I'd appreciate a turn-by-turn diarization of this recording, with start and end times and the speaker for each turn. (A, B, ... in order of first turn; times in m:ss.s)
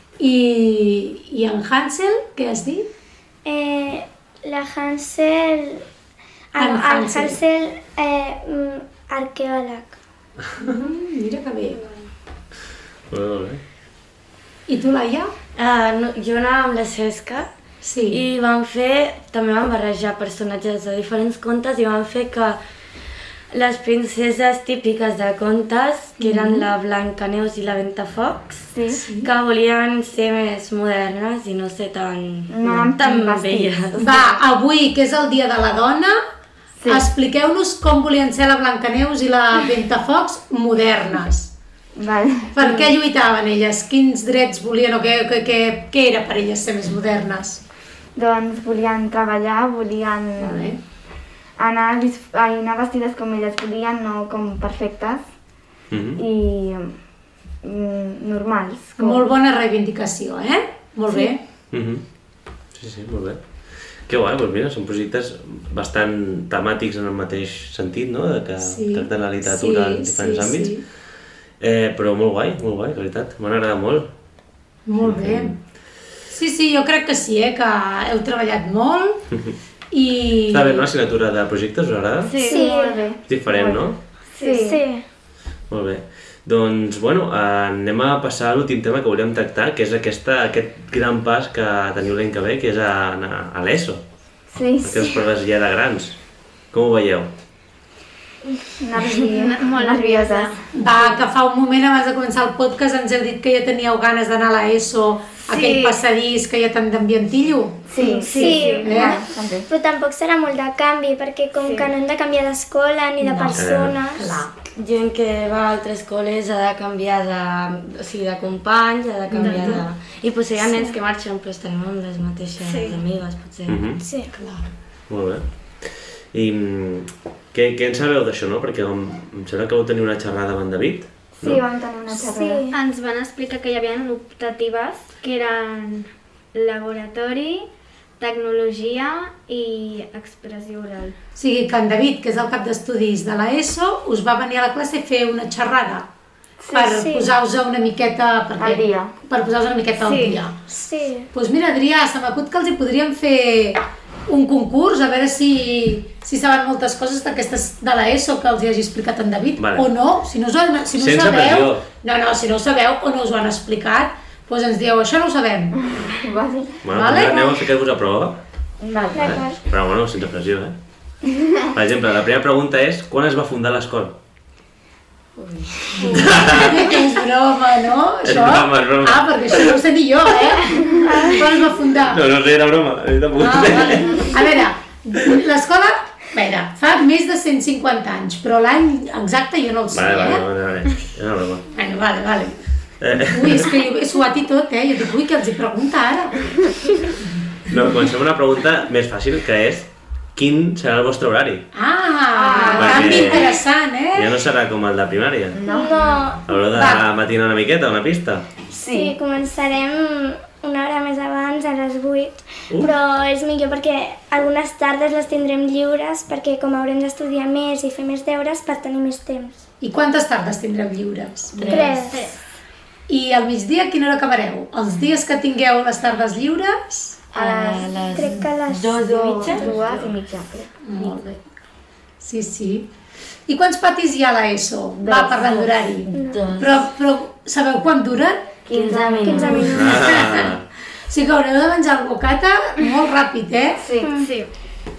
0:00.2-0:02.9 A
0:03.4-0:05.8 B
0:06.5-0:10.0 B
0:06.6-0:07.4 A
0:10.6-0:11.9 A
0:13.1-0:13.6 C
0:14.7-0:15.3 A
0:15.6-0:17.5 D
0:17.8-0:18.2 A
0:18.1-0:22.6 D
0:23.5-0:28.7 D
0:26.2-0:26.7 A
0:28.7-0:29.0 E
0:29.0-0:29.3 A
0:29.2-0:34.4 D
0:32.5-0:34.3 E
0:34.0-0:36.2 A
0:36.8-0:37.1 E
0:36.9-0:41.5 A
0:42.0-0:42.8 E
0:42.5-0:47.6 A
0:48.2-0:50.8 E
0:50.4-0:50.8 A
0:51.6-0:55.3 E
0:55.9-0:56.2 C
0:56.2-0:57.0 E
0:57.6-0:59.3 E
0:59.0-1:01.4 A
1:01.7-1:02.0 C
1:02.8-1:03.4 C
1:04.1-1:10.8 C
1:08.6-1:10.8 A
1:11.6-1:14.1 C
1:14.9-1:15.6 A
1:15.0-1:15.6 C
1:16.3-1:19.2 A
1:19.3-1:19.6 C
1:19.9-1:20.9 A
1:20.5-1:22.3 C
1:22.2-1:23.0 F
1:22.4-1:24.8 E
1:22.4-1:23.0 B
1:23.3-1:24.0 C
1:24.4-1:24.8 F
1:24.5-1:25.0 B
1:25.7-1:34.0 C
1:34.5-1:35.2 E
1:34.8-1:36.2 C
1:36.7-1:37.3 C
1:38.8-1:40.6 E
1:39.0-1:41.2 F
1:40.7-1:47.9 A
1:45.5-1:46.0 F
1:47.9-1:49.7 E
1:48.0-1:49.1 F
1:48.3-1:54.4 B
1:48.8-1:49.2 A
1:51.6-1:51.9 F
1:53.2-1:54.5 A
1:53.5-1:54.0 C
1:54.8-2:03.8 D
1:59.3-1:59.8 A
1:59.4-1:59.8 F
2:02.6-2:03.0 F
2:03.7-2:04.0 C
2:04.0-2:04.3 B
2:04.3-2:04.7 A
2:05.1-2:11.6 C
2:11.4-2:12.7 E
2:12.1-2:12.8 B
2:12.7-2:17.7 F
2:18.2-2:21.2 F
2:21.4-2:26.1 A
2:26.6-2:27.1 E
2:26.7-2:30.6 A
2:26.8-2:27.3 B
2:28.6-2:29.1 E
2:30.0-2:30.4 F
2:30.7-2:31.3 B
2:31.3-2:45.8 A
2:39.6-2:39.9 C
2:41.0-2:41.8 C
2:46.0-2:46.8 E
2:46.8-2:48.4 C
2:46.9-2:47.4 A
2:48.8-2:49.5 E
2:49.1-2:49.6 B
2:49.1-2:50.8 C
2:51.3-2:51.5 E
2:51.7-2:54.2 C
2:55.4-2:56.4 D
2:56.1-3:02.2 A
2:56.1-2:56.9 C
2:58.2-2:59.8 C
3:02.1-3:04.3 C
3:03.4-3:10.4 A
3:09.9-3:11.6 C
3:11.7-3:12.6 A
3:13.0-3:13.8 C
3:13.3-3:16.5 A
3:17.7-3:21.7 C
3:21.7-3:24.3 A
3:22.3-3:23.4 E
3:22.8-3:23.6 C
3:24.1-3:25.6 C
3:25.5-3:26.1 E
3:25.6-3:26.4 B
3:26.5-3:28.5 C
3:26.7-3:27.0 A
3:28.8-3:29.2 E
3:28.8-3:39.6 B
3:32.7-3:33.0 C
3:39.8-3:41.9 A
3:41.5-3:42.1 D
3:41.7-3:42.3 B
3:42.1-3:42.4 F
3:43.1-3:47.2 A
3:47.3-3:49.8 D
3:47.3-3:47.9 E
3:48.1-3:49.1 B
3:49.0-3:50.7 E
3:49.5-3:50.0 A
3:50.8-3:51.4 A
3:52.2-3:52.9 A
3:53.5-3:58.6 A
3:55.0-3:55.6 E
3:56.1-3:56.8 D
3:56.1-3:56.5 B
3:58.6-3:59.9 E
3:58.7-4:00.0 D
3:59.2-4:00.2 B
3:59.7-4:00.6 C
4:00.0-4:00.5 A
4:01.1-4:03.8 A
4:03.8-4:04.2 E
4:04.0-4:04.3 B
4:04.1-4:04.5 F